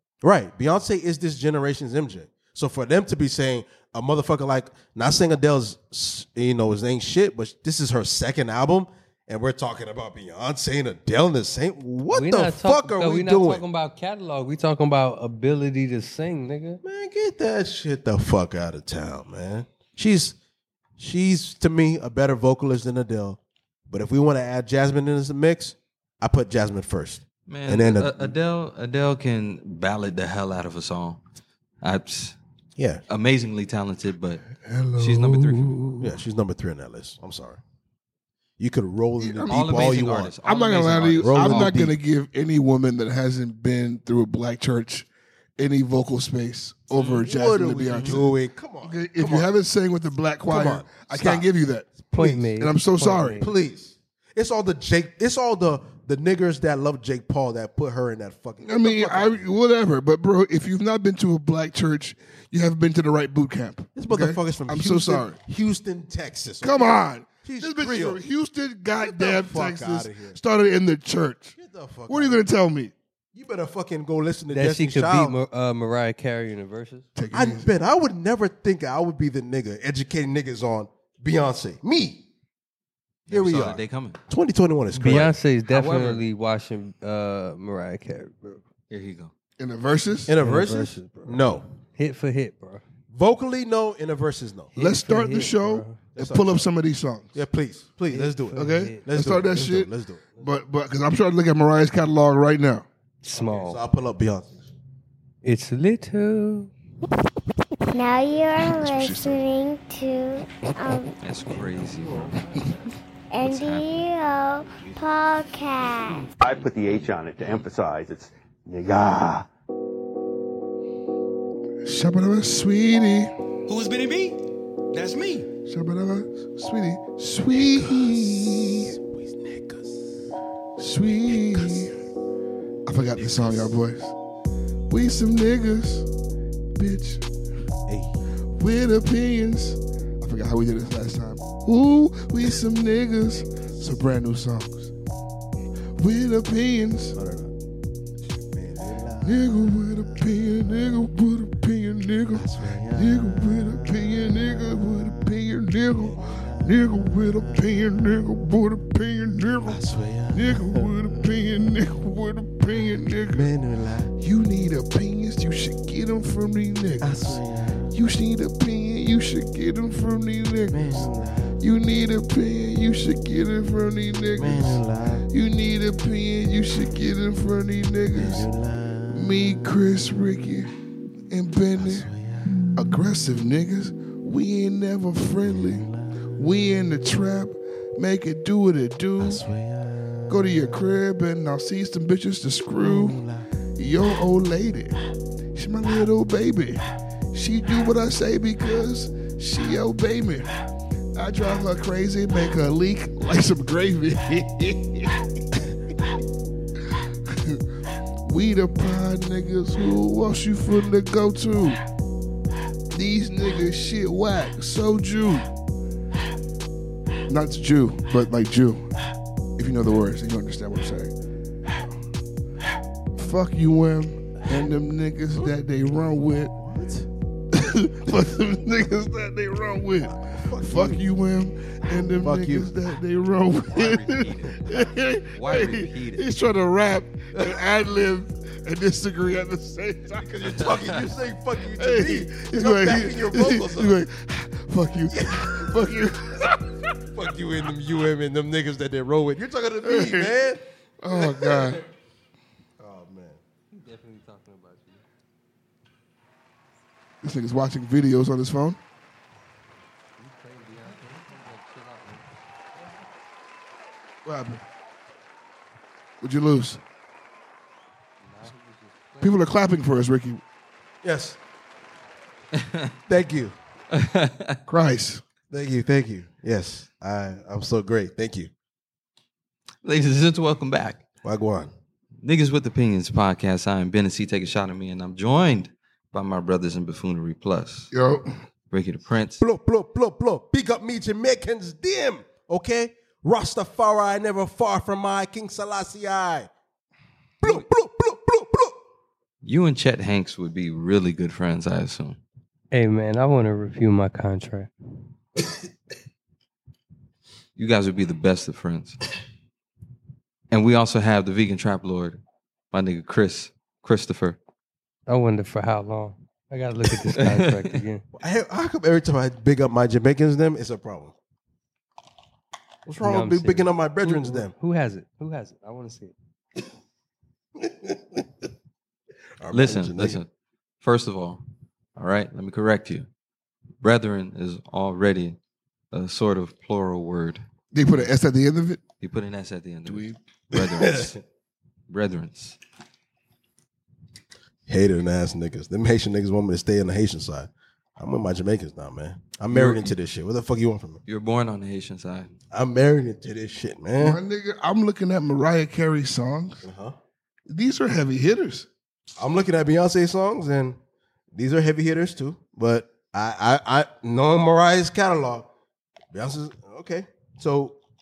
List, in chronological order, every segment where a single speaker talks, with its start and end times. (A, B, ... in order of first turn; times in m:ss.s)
0:00.2-0:13.6 A
0:12.1-0:16.8 B
0:16.8-0:20.4 A
0:21.0-0:28.4 A
0:27.5-0:31.2 C
0:31.8-0:32.4 C
0:32.8-0:33.0 A
0:33.1-0:34.4 C
0:34.6-0:36.1 D
0:35.0-0:35.8 C
0:36.0-0:37.6 A
0:38.6-0:40.3 A
0:39.2-0:53.4 D
0:39.5-0:41.8 C
0:41.2-0:42.0 A
0:46.9-0:47.3 C
0:47.2-0:49.5 A
0:47.9-0:48.2 C
0:50.5-0:52.5 A
0:52.1-0:53.5 B
0:53.4-0:59.4 A
0:58.6-1:05.4 D
1:04.0-1:08.2 A
1:06.6-1:11.6 D
1:09.0-1:10.4 A
1:11.6-1:12.4 A
1:12.1-1:12.9 D
1:13.3-1:15.4 A
1:14.5-1:17.1 B
1:17.2-1:17.7 D
1:17.3-1:22.3 A
1:23.3-1:25.4 A
1:23.3-1:24.2 C
1:24.9-1:28.6 B
1:25.1-1:26.2 C
1:28.9-1:29.3 C
1:29.6-1:30.3 D
1:30.3-1:31.7 A
1:30.4-1:32.8 B
1:33.1-1:34.7 A
1:34.8-1:36.0 B
1:34.8-1:37.4 D
1:36.2-1:36.7 A
1:37.3-1:40.5 A
1:38.1-1:39.1 B
1:38.6-1:42.9 D
1:43.2-1:43.8 B
1:43.3-1:44.7 A
1:45.4-1:46.7 B
1:47.9-1:51.2 E
1:48.8-1:49.4 D
1:51.2-1:52.4 C
1:53.3-1:56.3 E
1:53.4-1:53.9 C
1:56.4-1:59.4 F
1:58.8-1:59.4 G
2:01.8-2:03.3 D
2:03.7-2:04.4 G
2:04.9-2:05.5 G
2:05.7-2:08.9 D
2:07.5-2:09.9 A
2:10.8-2:11.9 D
2:11.3-2:11.9 A
2:12.9-2:14.1 D
2:13.2-2:13.8 A
2:14.9-2:16.1 D
2:16.8-2:17.2 D
2:17.9-2:18.2 A
2:18.5-2:24.9 D
2:26.0-2:27.2 D
2:27.1-2:27.5 A
2:28.5-2:31.1 A
2:29.2-2:39.8 D
2:32.3-2:35.4 A
2:35.9-2:38.3 A
2:39.7-2:41.7 A
2:40.3-2:43.4 D
2:43.3-2:44.1 A
2:44.2-2:47.4 D
2:47.0-2:48.0 A
2:47.9-2:51.1 D
2:50.7-2:51.6 A
2:51.6-2:54.8 D
2:54.4-2:55.3 A
2:55.3-2:58.5 D
2:58.1-2:59.7 A
2:59.1-3:00.7 D
3:01.3-3:02.1 D
3:01.8-3:02.6 A
3:02.8-3:09.4 D
3:05.4-3:06.4 A
3:09.2-3:11.0 A
3:10.3-3:13.2 D
3:12.8-3:13.5 A
3:13.8-3:15.0 D
3:15.6-3:20.5 D
3:21.2-3:25.2 D
3:27.3-3:27.6 D
3:28.2-3:31.8 D
3:32.9-3:35.5 D
3:37.3-3:38.9 D
3:39.6-3:41.1 D
3:43.2-3:46.5 D
3:46.6-3:47.1 A
3:47.5-4:00.3 D
3:50.1-3:51.1 A
3:52.1-3:52.7 A
3:53.7-3:56.3 C
3:57.3-3:57.6 A
4:00.2-4:04.0 A
4:01.8-4:06.7 D
4:05.1-4:06.1 A
4:07.1-4:11.9 A
4:09.8-4:11.8 D
4:12.8-4:13.4 A
4:13.7-4:15.0 B
4:17.2-4:18.8 D
4:20.2-4:22.2 B
4:24.2-4:24.6 D
4:26.2-4:26.8 D
4:28.2-4:29.5 B
4:29.2-4:30.4 D
4:31.0-4:31.4 A
4:32.5-4:33.0 C
4:33.1-4:33.6 A
4:33.9-4:34.6 C
4:34.7-4:35.2 D
4:35.5-4:38.5 A
4:39.8-4:41.0 C
4:41.2-4:41.7 A
4:42.2-4:47.9 C
4:47.9-4:48.3 D
4:48.7-4:49.4 C
4:49.4-4:56.5 A
4:57.4-4:58.8 A
4:59.4-5:02.2 C
5:02.7-5:04.7 B
5:07.6-5:09.0 C
5:10.5-5:12.2 C
5:12.7-5:14.4 C
5:15.1-5:18.0 B
5:17.2-5:17.8 C
5:18.1-5:21.2 A
5:22.8-5:24.5 A
5:23.0-5:26.1 B
5:27.6-5:28.2 A
5:29.4-5:30.2 A
5:29.5-5:30.3 C
5:30.8-5:31.4 C
5:32.0-5:33.1 C
5:33.8-5:35.4 C
5:35.9-5:37.4 C
5:37.7-5:38.8 D
5:39.0-5:41.2 C
5:39.9-5:40.1 D
5:40.5-5:41.2 A
5:41.9-5:42.6 C
5:44.7-5:51.0 A
5:49.5-5:49.9 C
5:51.1-5:52.3 C
5:52.5-5:54.2 A
5:54.0-5:56.6 D
5:56.6-5:57.0 A
5:57.5-5:58.7 D
5:59.2-6:00.8 A
6:01.3-6:05.5 A
6:06.1-6:07.8 A